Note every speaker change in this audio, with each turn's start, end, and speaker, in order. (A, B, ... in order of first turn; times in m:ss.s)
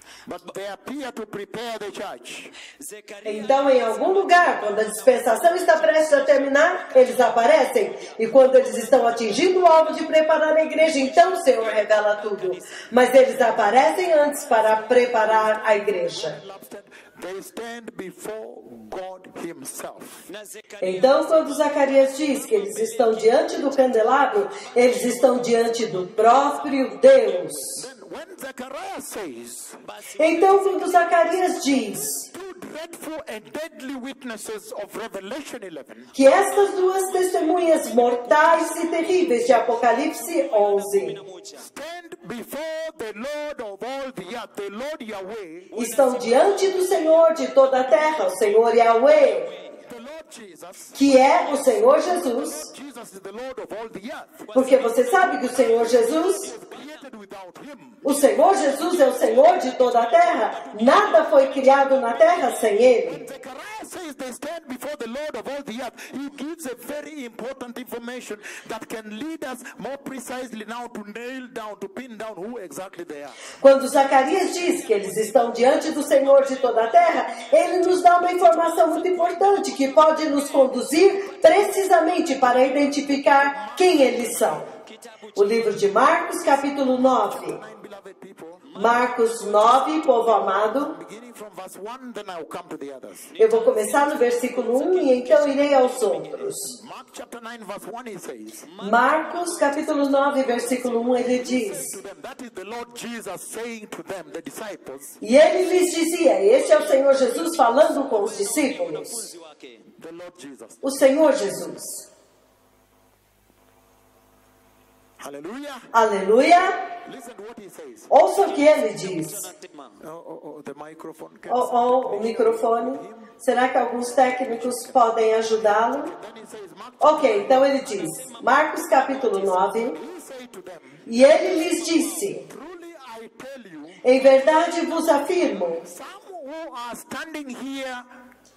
0:00.2-0:02.5 A
0:02.7-0:05.0 B
0:03.2-0:16.4 C
0:10.8-0:12.9 B
0:16.1-0:20.3 A
0:20.3-0:22.1 B
0:20.8-0:27.9 C
0:27.8-0:29.8 A
0:29.9-0:31.2 B
0:30.2-0:32.3 C
0:32.2-0:36.1 A
0:36.2-0:41.2 C
0:38.6-0:41.6 B
0:41.6-0:45.7 A
0:45.7-0:46.9 B
0:45.8-0:49.5 C
0:49.8-0:51.0 A
0:51.0-0:52.7 C
0:52.6-0:54.5 A
0:54.5-0:56.5 C
0:56.4-0:58.0 A
0:58.0-1:03.3 C
1:03.2-1:13.5 A
1:13.6-1:24.7 C
1:23.5-1:24.8 A
1:24.8-1:26.0 B
1:25.4-1:27.6 C
1:26.8-1:29.0 A
1:28.8-1:30.9 C
1:30.7-1:33.3 A
1:33.3-1:36.4 B
1:33.4-1:36.7 C
1:36.6-1:38.7 A
1:38.7-1:41.2 B
1:38.8-1:42.0 C
1:41.2-1:45.2 A
1:45.2-1:49.3 C
1:47.0-1:49.9 B
1:50.0-1:50.8 A
1:50.8-1:52.1 C
1:55.2-1:55.9 A
1:55.9-1:56.8 C
1:57.0-1:58.3 A
1:58.1-1:59.5 C
1:58.7-2:00.0 B
2:00.0-2:03.4 A
2:01.5-2:06.1 C
2:04.1-2:05.2 A
2:06.0-2:08.3 A
2:07.0-2:10.0 C
2:09.8-2:11.1 A
2:11.1-2:12.5 C
2:12.4-2:14.4 A
2:14.0-2:15.8 C
2:15.7-2:18.1 A